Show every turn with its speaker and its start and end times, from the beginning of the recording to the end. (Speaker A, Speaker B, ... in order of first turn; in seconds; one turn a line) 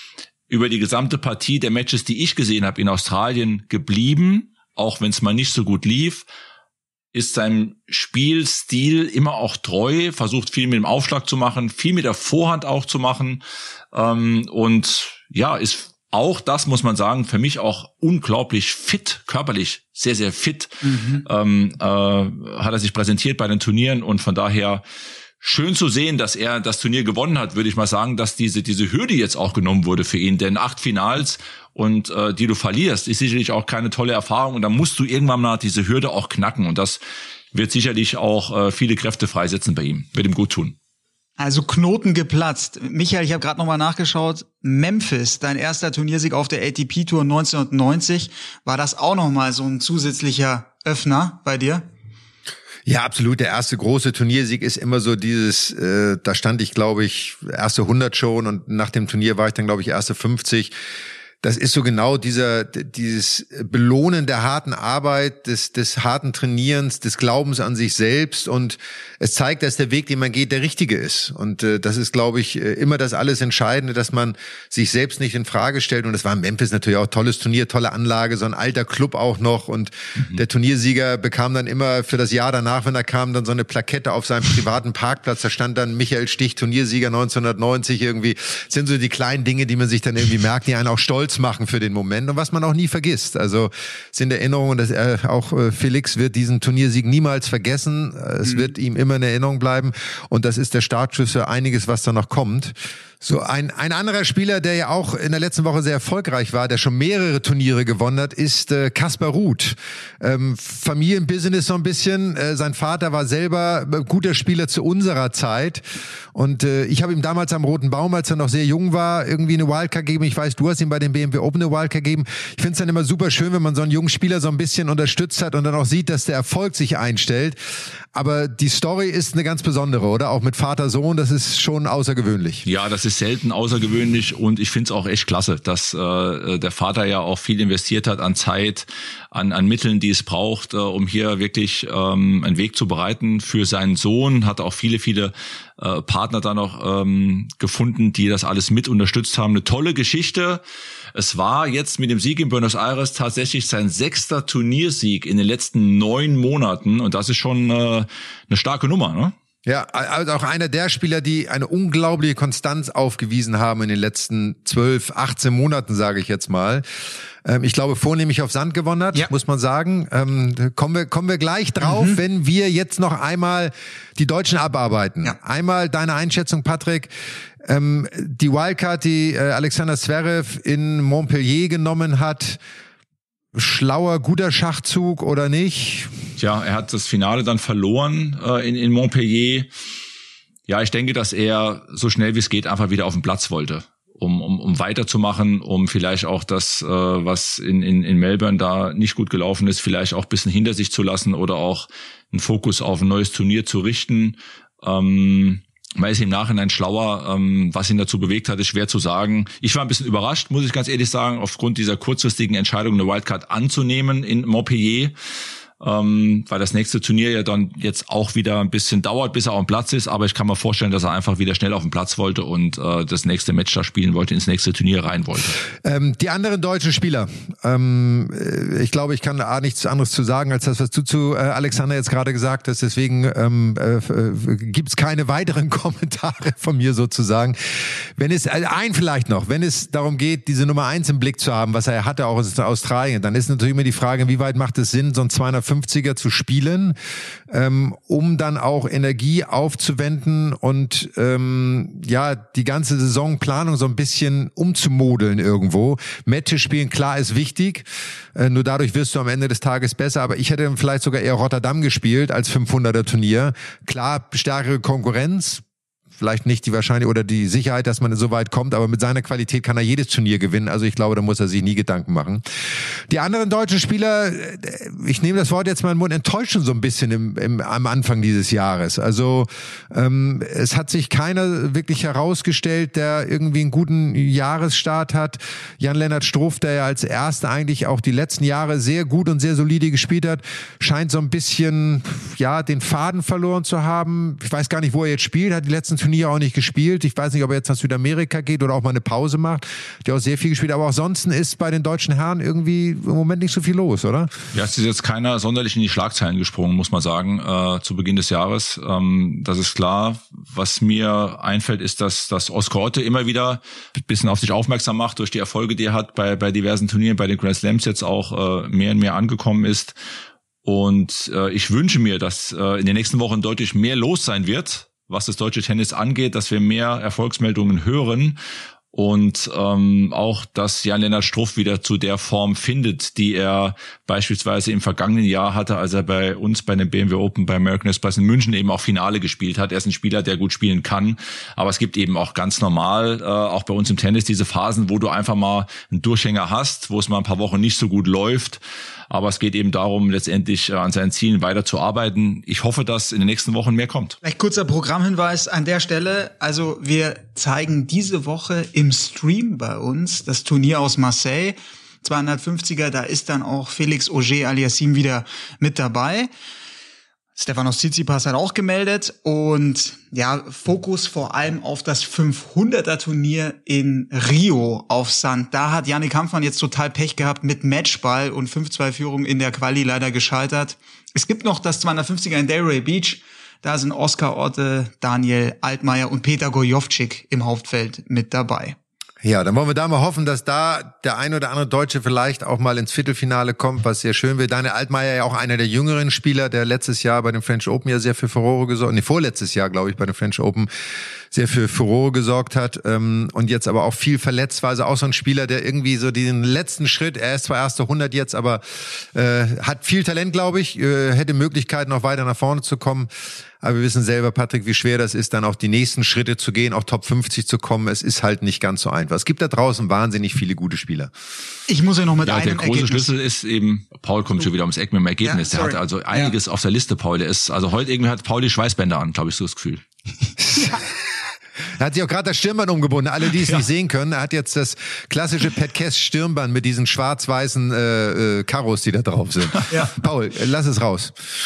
Speaker A: 0.5-6.2
Speaker A: 7.1-24.9
Speaker B: 20.8-21.2
Speaker A: 25.4-37.0
Speaker A: 37.5-40.8
Speaker B: 41.4-51.9
Speaker C: 52.9-60.7
Speaker C: 61.4-115.8
Speaker B: 98.4-98.7
Speaker C: 116.3-127.6
Speaker C: 128.1-132.6
Speaker A: 132.6-150.6
Speaker A: 151.1-159.3
Speaker C: 159.6-166.8
Speaker C: 167.4-177.1
Speaker B: 171.8-172.2
Speaker C: 177.6-182.6
Speaker C: 183.5-186.2
Speaker A: 186.4-189.7
Speaker A: 190.7-215.1
Speaker A: 215.8-225.6
Speaker C: 225.8-247.0
Speaker C: 247.5-265.6
Speaker C: 266.2-272.4
Speaker C: 273.1-304.3
Speaker A: 304.5-320.0
Speaker A: 320.6-328.4
Speaker A: 328.9-354.2
Speaker B: 354.2-366.3
Speaker B: 367.4-388.8
Speaker C: 389.2-400.7
Speaker C: 401.3-421.1
Speaker B: 421.7-423.1
Speaker A: 422.3-429.8
Speaker B: 425.2-426.3
Speaker C: 430.5-430.8
Speaker C: 431.8-441.1